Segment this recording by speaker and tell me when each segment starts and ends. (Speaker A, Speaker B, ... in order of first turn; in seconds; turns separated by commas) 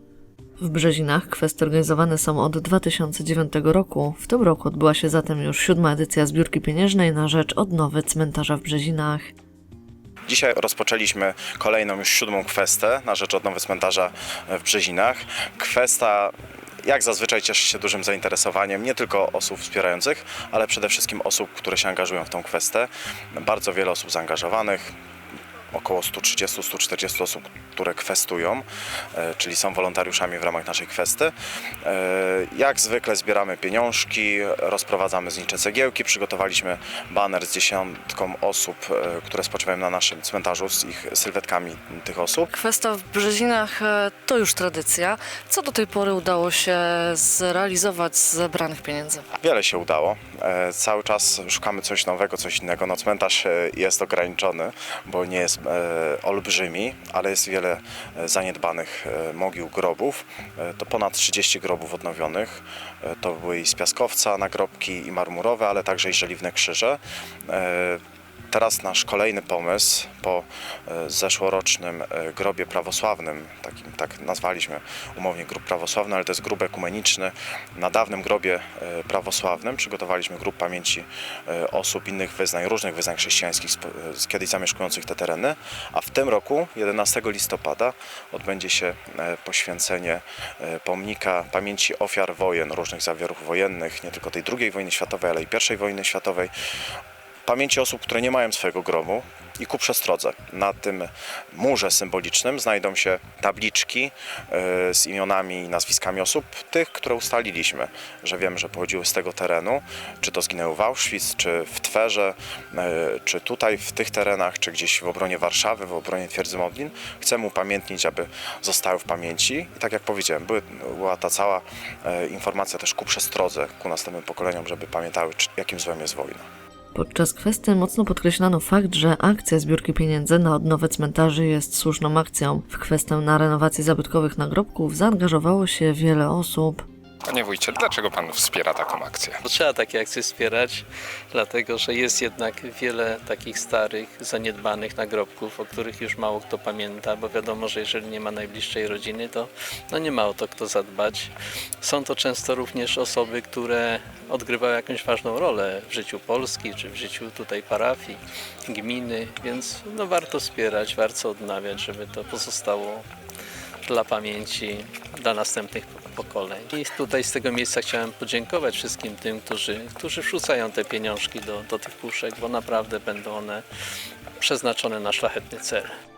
Speaker A: 0.6-9.3, Speaker B: 10.3-25.0, Speaker B: 25.7-42.5, Speaker A: 42.5-49.2, Speaker B: 49.4-96.5, Speaker B: 97.5-126.5, Speaker A: 126.9-136.8, Speaker C: 137.3-139.4, Speaker D: 139.4-151.3, Speaker D: 151.8-163.0, Speaker D: 163.9-173.6, Speaker D: 174.4-175.9